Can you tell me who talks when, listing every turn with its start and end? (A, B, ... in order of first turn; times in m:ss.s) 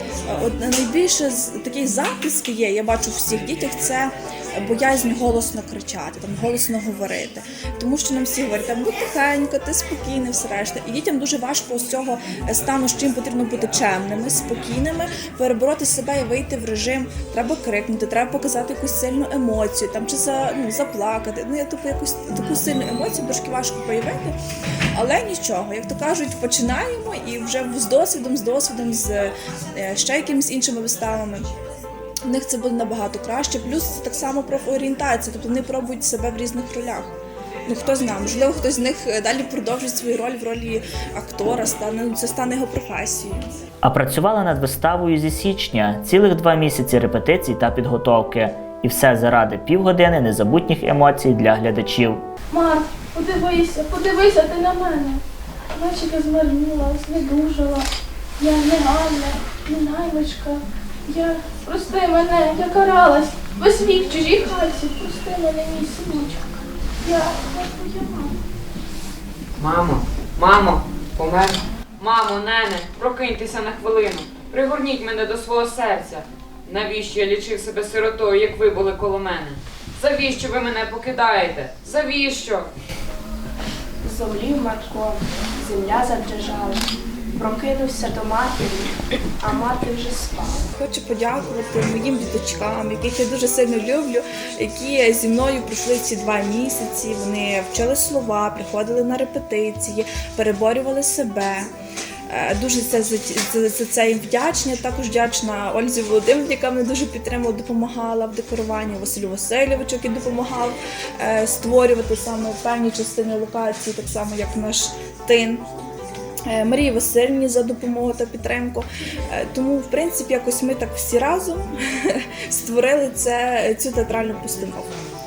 0:00.3-0:24.4 A
0:25.0-0:31.5 A
0:32.3-0:37.1 A
0:37.7-0:43.5 A
0:43.8-0:52.2 B
0:52.5-0:55.2 C
0:55.8-0:57.8 C
0:58.4-1:06.3 C
1:07.0-1:08.1 C
1:09.6-1:22.7 D
1:24.0-1:30.6 E
1:30.8-1:41.7 A
1:42.3-1:55.6 A
1:56.5-2:04.9 A